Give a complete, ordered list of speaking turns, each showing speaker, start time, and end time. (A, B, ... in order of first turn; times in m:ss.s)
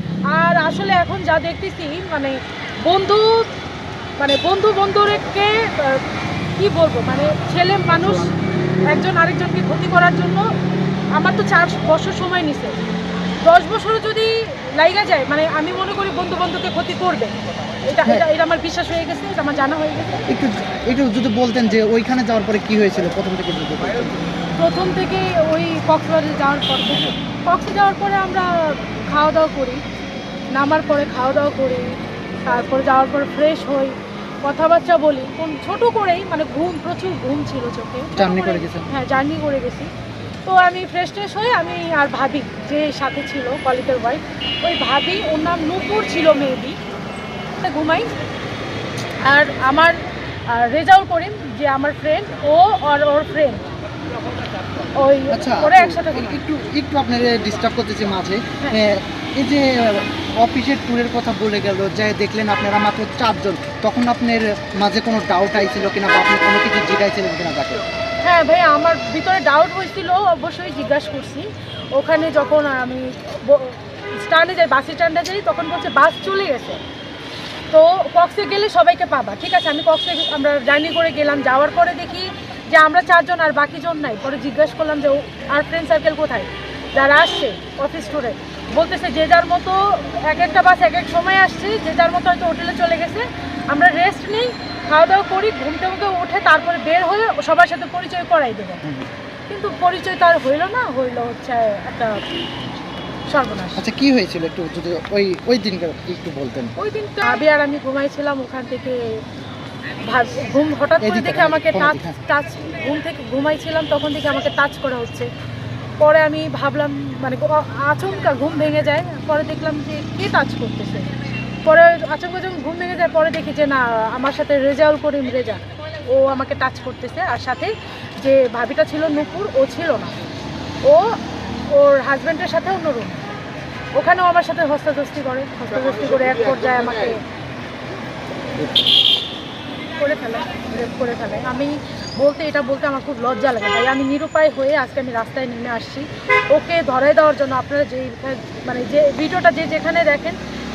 0:00.3-0:03.6 A
0:04.2-0:08.3 A
0:08.8-0:10.5 A
0:11.1-0:12.8 A
0:13.4-0:20.2 A
0:20.3-0:24.3 B
0:24.6-0:29.8 A
0:30.5-0:39.9 A
0:38.1-0:39.0 B
0:40.4-0:46.8 A
0:47.6-0:48.1 A
0:49.2-0:53.7 A
0:54.9-0:56.4 A
0:55.3-1:07.8 B
1:08.2-1:16.8 A
1:17.7-1:38.8 A
1:39.5-1:42.2 A
1:43.3-1:43.8 A
1:43.8-1:46.7 B
1:46.8-1:49.2 A
1:50.0-1:55.3 A
1:51.0-1:52.2 B
1:56.0-2:10.2 A
2:10.8-2:11.2 A
2:11.7-2:13.2 A
2:13.9-2:17.2 A
2:19.9-2:30.4 A